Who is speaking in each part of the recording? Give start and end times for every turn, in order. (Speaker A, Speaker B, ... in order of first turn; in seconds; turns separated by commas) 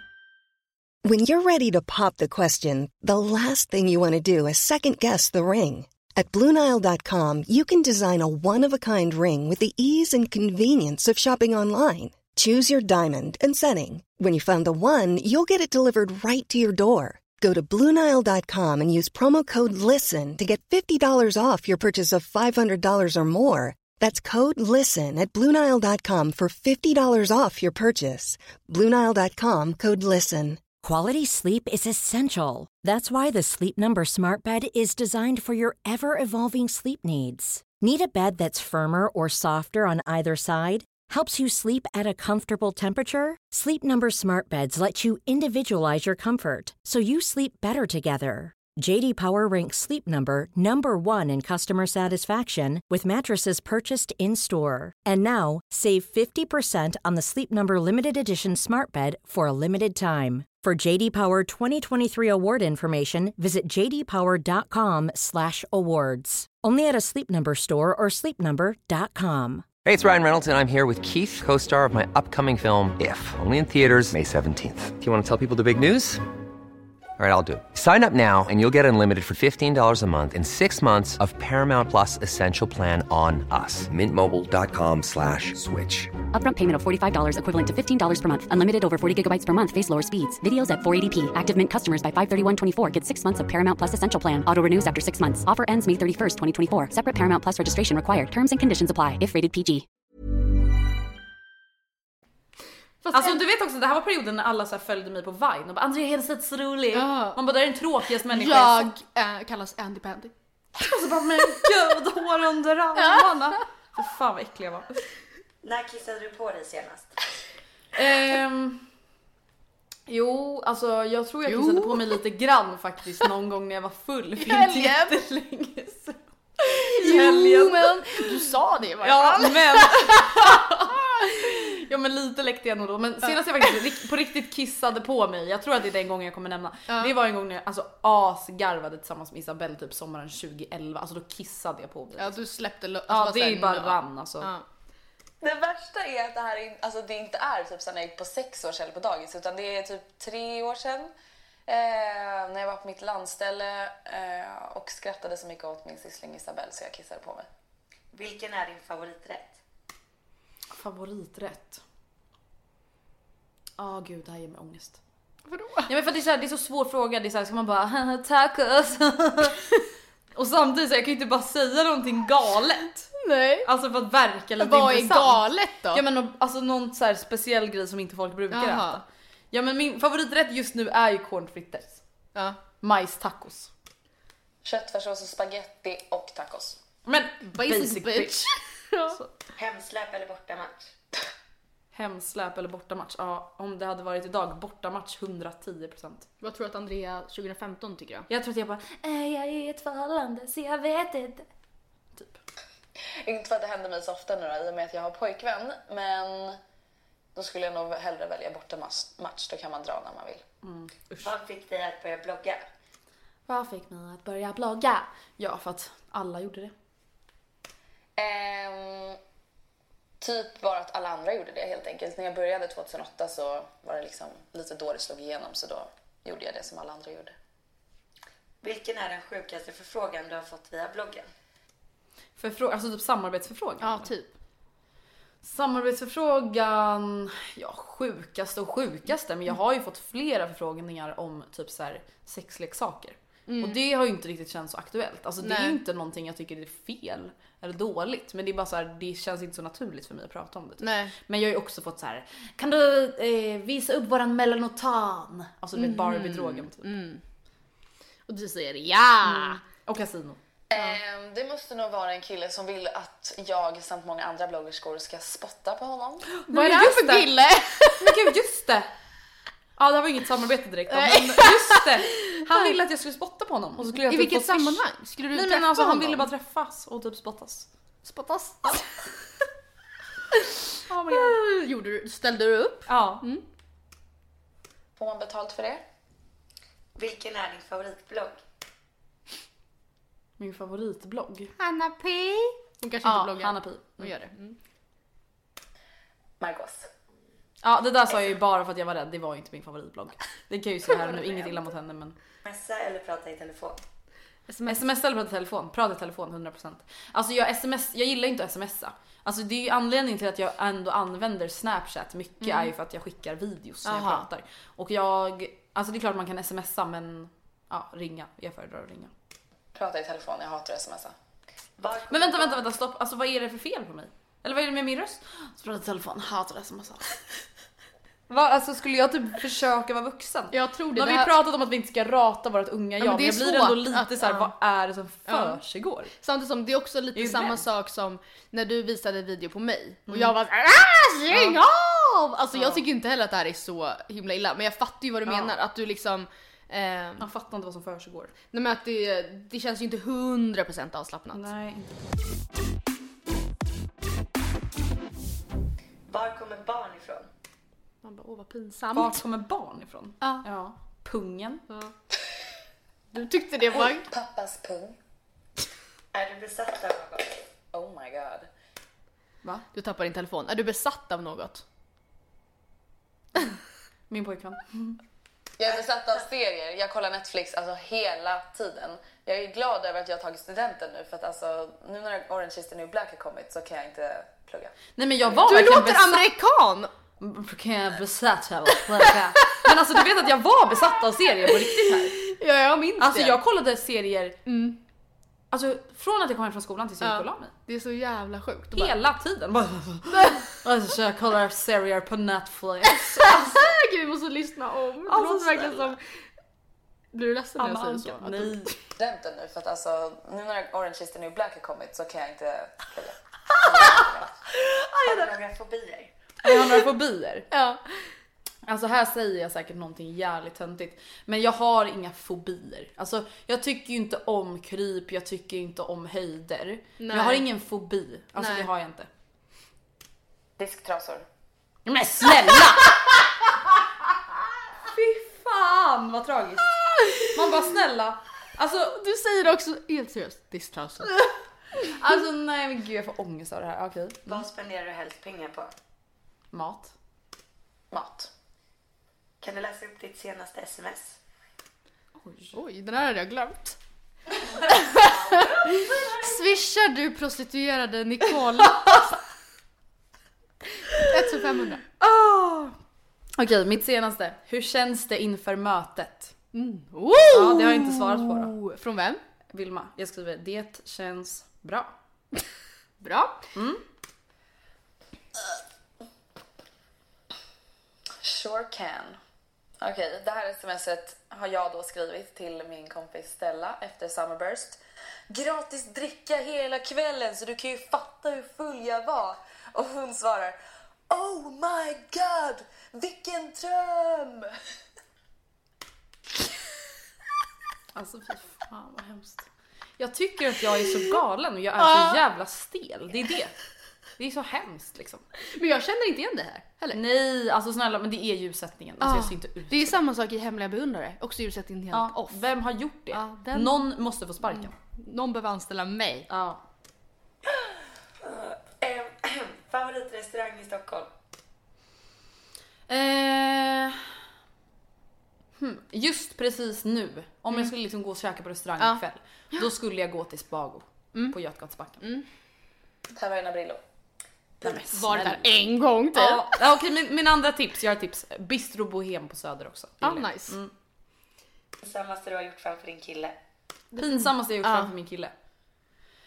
Speaker A: 1.0-30.6, Speaker B: 30.8-69.7, Speaker C: 69.8-76.2, Speaker C: 77.2-86.1, Speaker D: 86.3-99.8, Speaker E: 103.0-103.4, Speaker F: 103.1-108.9, Speaker E: 106.9-107.4, Speaker E: 108.2-110.3, Speaker F: 110.8-115.0, Speaker G: 115.6-117.1, Speaker F: 117.9-118.8, Speaker F: 120.1-128.4, Speaker E: 121.5-122.0, Speaker E: 124.4-125.2, Speaker E: 126.7-130.6, Speaker F: 129.0-142.4, Speaker E: 142.2-144.6, Speaker F: 143.1-144.5, Speaker H: 145.4-151.1, Speaker H: 151.7-157.4, Speaker G: 158.1-159.6, Speaker F: 160.7-161.8, Speaker F: 163.8-165.0, Speaker E: 165.5-165.9, Speaker F: 165.9-169.8, Speaker F: 170.3-173.1, Speaker E: 173.2-173.7, Speaker F: 173.6-182.0, Speaker E: 174.6-176.0, Speaker E: 178.5-179.0, Speaker F: 182.8-183.7, Speaker H: 184.6-186.8, Speaker F: 187.1-188.5, Speaker E: 187.4-189.2, Speaker G: 189.6-190.9, Speaker F: 191.9-196.3, Speaker E: 196.4-198.3, Speaker F: 198.3-201.4, Speaker F: 202.1-202.4, Speaker H: 203.2-206.6, Speaker H: 207.3-210.4, Speaker F: 210.6-211.3, Speaker G: 211.2-212.6, Speaker F: 213.5-216.7, Speaker H: 218.2-219.2, Speaker H: 220.2-227.3, Speaker G: 228.6-231.3, Speaker F: 232.4-234.1, Speaker E: 233.8-234.3, Speaker F: 235.4-256.9, Speaker E: 243.5-243.8, Speaker E: 245.4-245.8, Speaker E: 250.8-251.1, Speaker E: 255.8-257.2, Speaker E: 258.3-259.6, Speaker F: 259.2-260.4, Speaker H: 260.7-266.3, Speaker F: 266.4-267.3, Speaker E: 266.5-268.2, Speaker F: 268.0-268.9, Speaker F: 269.8-277.7, Speaker E: 270.9-272.7, Speaker E: 273.9-276.3, Speaker E: 278.0-278.9, Speaker F: 280.9-281.4, Speaker E: 281.1-283.4, Speaker F: 282.9-283.2, Speaker H: 285.0-285.8, Speaker G: 286.9-288.4, Speaker F: 290.4-291.5, Speaker E: 291.6-294.6, Speaker F: 293.0-294.1, Speaker H: 296.4-296.9, Speaker F: 297.6-302.1, Speaker E: 300.9-301.6, Speaker G: 302.4-303.8, Speaker E: 304.5-304.8, Speaker F: 304.7-319.1, Speaker E: 312.4-312.7, Speaker E: 313.8-314.2, Speaker H: 319.7-321.1, Speaker G: 321.8-322.6, Speaker F: 322.1-327.1, Speaker F: 328.3-336.1, Speaker E: 330.5-331.3, Speaker E: 333.0-334.5, Speaker E: 335.3-335.6, Speaker E: 336.2-347.3, Speaker F: 337.1-337.6, Speaker F: 340.1-340.3, Speaker F: 341.3-341.6, Speaker F: 342.5-342.8, Speaker F: 345.2-345.5, Speaker F: 347.2-348.3, Speaker E: 348.5-351.4, Speaker F: 351.3-351.9, Speaker G: 356.1-357.3, Speaker E: 358.0-359.2, Speaker F: 358.9-361.6, Speaker E: 363.1-364.1, Speaker H: 363.9-365.0, Speaker G: 366.1-367.4, Speaker H: 367.7-368.5, Speaker E: 369.7-371.6, Speaker F: 374.1-375.0, Speaker H: 375.6-385.4, Speaker F: 384.9-386.2, Speaker E: 385.4-386.9, Speaker F: 387.2-392.1, Speaker E: 391.5-393.4, Speaker F: 393.0-394.4, Speaker E: 394.4-394.8, Speaker F: 395.5-397.5, Speaker E: 397.0-398.9, Speaker F: 398.7-403.6, Speaker E: 400.1-400.4, Speaker E: 403.1-406.0, Speaker F: 405.1-405.9, Speaker E: 407.1-408.7, Speaker F: 407.6-408.7, Speaker H: 409.0-414.3, Speaker G: 415.0-416.1, Speaker F: 416.4-417.5, Speaker E: 417.5-417.8, Speaker F: 418.6-429.1, Speaker E: 427.0-427.4, Speaker E: 428.4-428.7, Speaker H: 430.6-431.2, Speaker F: 431.9-432.9, Speaker F: 434.9-438.9, Speaker E: 436.9-437.2, Speaker E: 438.9-441.2, Speaker F: 441.8-444.4, Speaker G: 444.3-445.7, Speaker F: 446.5-446.9, Speaker H: 447.9-448.3, Speaker G: 449.4-451.2, Speaker F: 452.2-452.5, Speaker E: 452.5-453.8, Speaker E: 454.7-459.1, Speaker E: 460.9-461.8, Speaker F: 462.0-462.7, Speaker F: 463.4-466.3, Speaker E: 466.5-469.2, Speaker F: 467.3-468.5, Speaker F: 469.5-471.9, Speaker E: 473.0-473.4, Speaker F: 473.5-473.8, Speaker H: 478.2-479.2, Speaker H: 479.8-484.8, Speaker H: 485.3-490.6, Speaker H: 491.1-494.5, Speaker F: 497.9-499.4, Speaker F: 500.0-503.5, Speaker E: 501.8-502.2, Speaker F: 504.2-505.2, Speaker E: 505.5-507.0, Speaker F: 506.9-510.0, Speaker E: 509.0-512.4, Speaker F: 511.9-514.7, Speaker E: 513.1-513.8, Speaker E: 514.5-516.3, Speaker F: 516.3-516.6, Speaker G: 518.2-521.1, Speaker F: 522.9-524.0, Speaker F: 525.6-532.0, Speaker H: 533.1-533.8, Speaker F: 534.6-535.5, Speaker E: 534.6-536.5, Speaker F: 536.1-540.7, Speaker E: 540.0-540.6, Speaker G: 541.8-543.4, Speaker E: 543.9-544.9, Speaker F: 544.0-545.3